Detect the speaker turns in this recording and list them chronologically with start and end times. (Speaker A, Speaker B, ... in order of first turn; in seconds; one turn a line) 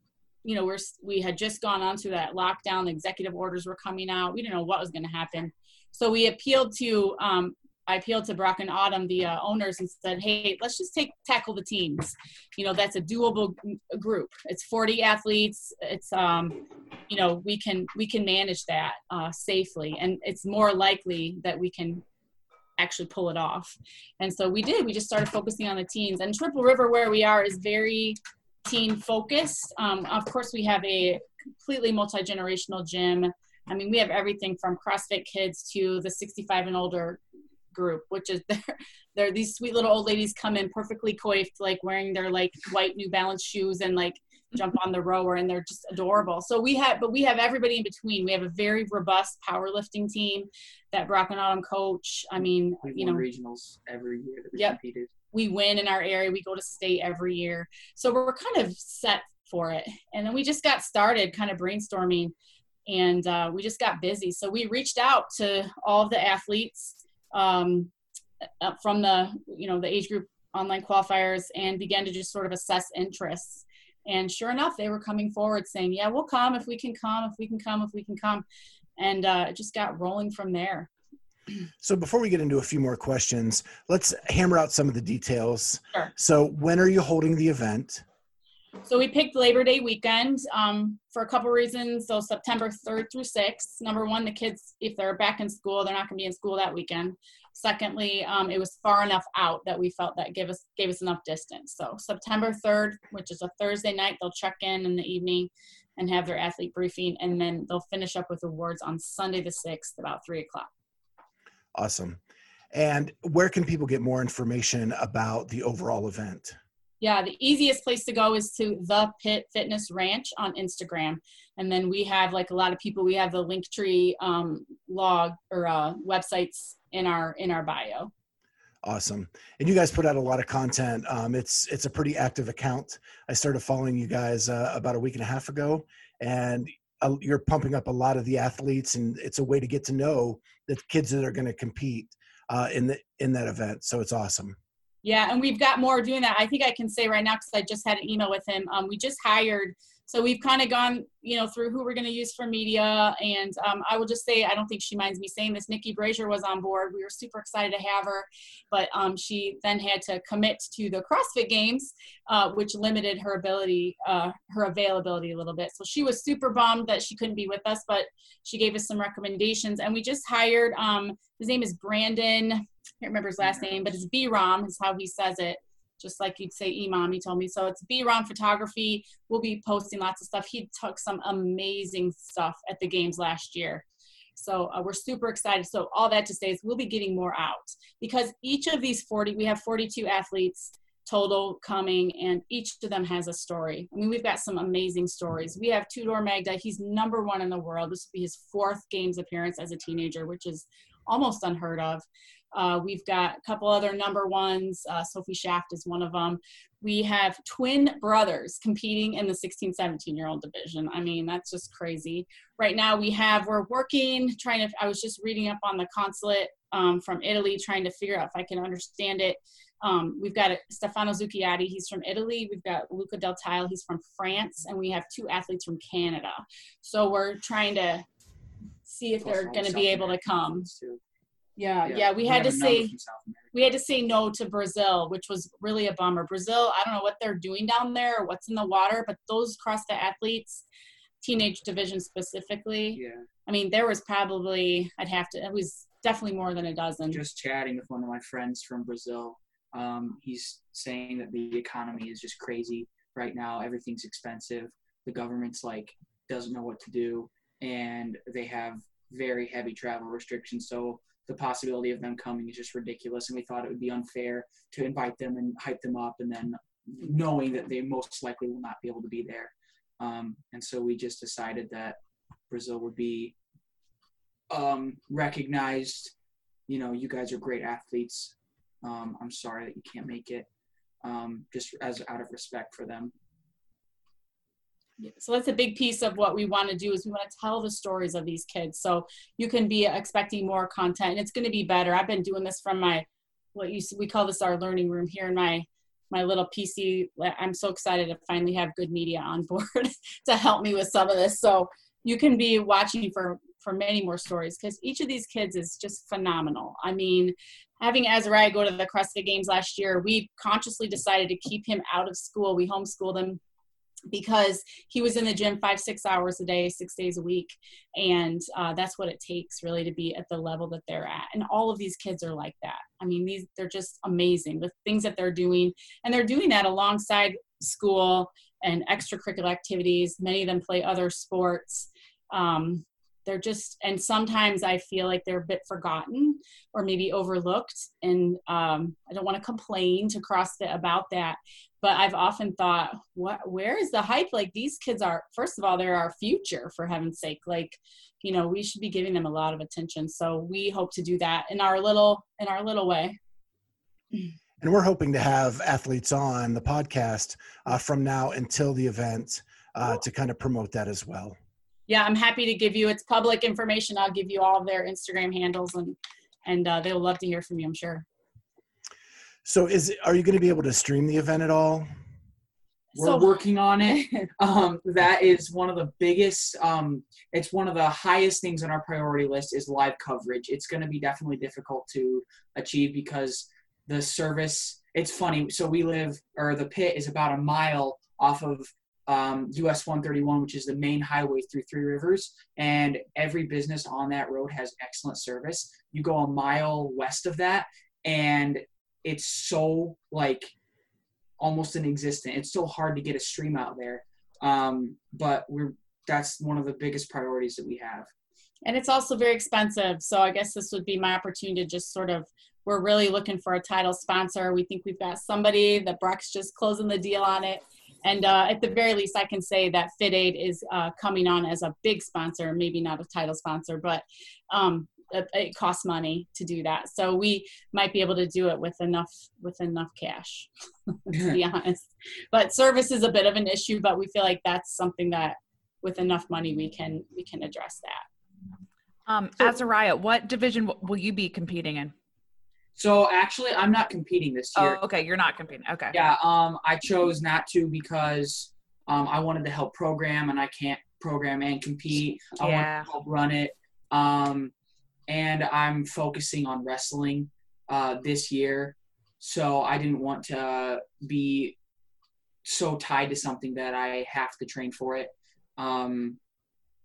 Speaker A: 0.4-22.0
Speaker A: 22.8-37.2
Speaker A: 37.7-53.2
Speaker B: 52.8-55.1
Speaker A: 55.3-62.3
Speaker A: 62.9-67.9
Speaker A: 68.6-78.5
Speaker A: 79.0-80.9
Speaker C: 81.8-88.0
Speaker A: 88.8-110.7
Speaker C: 111.8-112.2
Speaker C: 112.7-116.6
Speaker A: 117.0-128.1
Speaker C: 128.8-144.6
Speaker A: 145.0-183.8
Speaker B: 173.4-173.7
Speaker A: 184.4-228.1
Speaker A: 228.9-230.7
Speaker B: 229.2-231.0
Speaker A: 231.6-232.9
Speaker B: 231.8-233.8
Speaker A: 233.5-240.7
Speaker A: 241.2-247.2
Speaker B: 242.9-243.3
Speaker B: 247.1-272.0
Speaker B: 272.5-273.4
Speaker B: 274.5-276.1
Speaker B: 276.7-280.5
Speaker B: 281.0-283.1
Speaker A: 285.0-313.4
Speaker A: 314.1-353.2
Speaker C: 354.6-361.4
Speaker A: 361.9-368.1
Speaker C: 369.4-371.9
Speaker A: 372.9-374.3
Speaker B: 373.0-400.5
Speaker B: 401.4-408.1
Speaker A: 408.6-438.0
Speaker B: 431.1-431.4
Speaker D: 439.1-441.9
Speaker B: 442.8-444.8
Speaker D: 444.6-446.1
Speaker B: 445.9-454.5
Speaker D: 452.4-452.9
Speaker B: 455.1-461.6
Speaker B: 462.4-466.2